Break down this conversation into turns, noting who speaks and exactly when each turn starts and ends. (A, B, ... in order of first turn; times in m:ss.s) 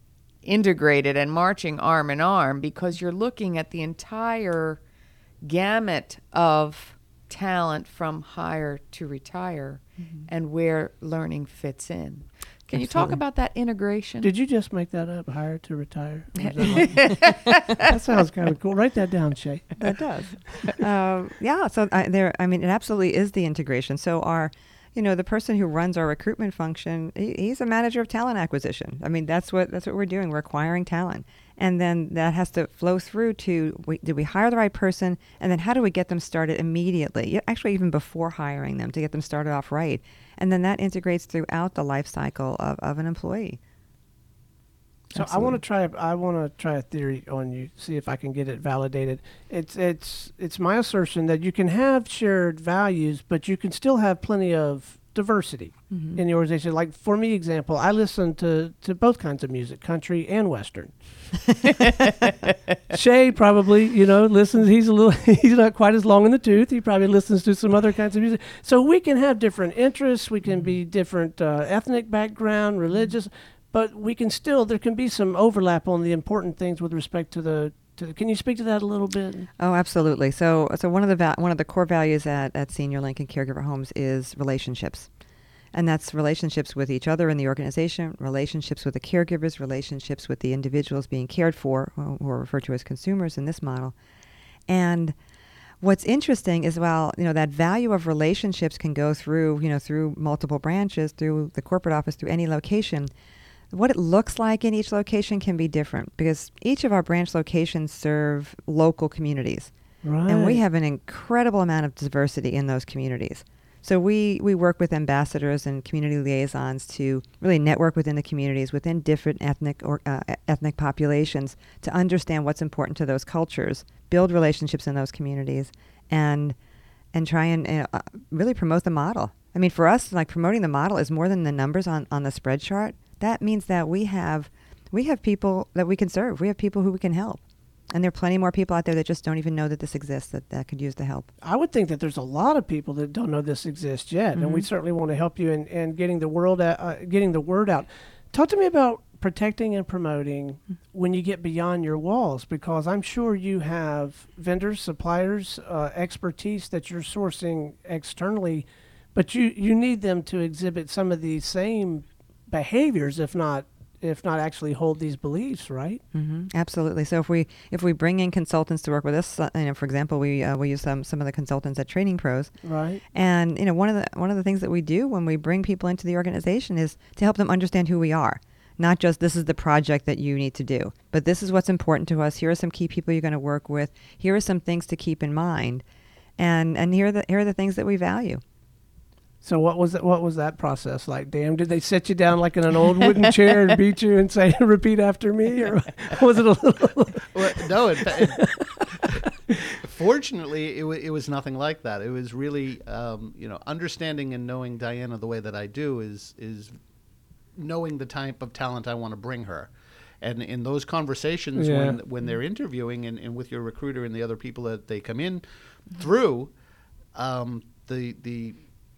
0:00.4-0:04.8 A
0:05.4-0:14.3 A
0:12.7-0:13.2 B
0:14.2-0:19.8 C
0:16.5-0:17.7 A
0:19.8-0:43.6 B
0:45.1-0:45.6 B
0:45.1-1:01.0 C
0:55.9-0:56.2 B
1:02.9-1:19.5 C
1:19.6-1:25.1 B
1:25.7-1:33.9 B
1:34.7-1:35.2 B
1:35.8-1:43.1 B
1:43.7-1:49.7 B
1:50.0-1:50.6 C
1:50.3-2:06.6 B
2:07.1-2:17.4 B
2:17.9-2:21.3 B
2:21.4-2:46.0 C
2:24.4-2:24.7 B
2:46.1-2:52.5 B
2:52.6-2:53.0 C
2:53.1-3:05.8 B
3:06.4-3:08.4 B
3:09.4-3:17.3 C
3:17.3-3:19.2 D
3:18.0-3:19.8 C
3:19.8-3:26.7 D
3:27.6-3:29.7 D
3:30.2-3:36.5 D
3:31.6-3:32.0 C
3:37.1-3:38.6 D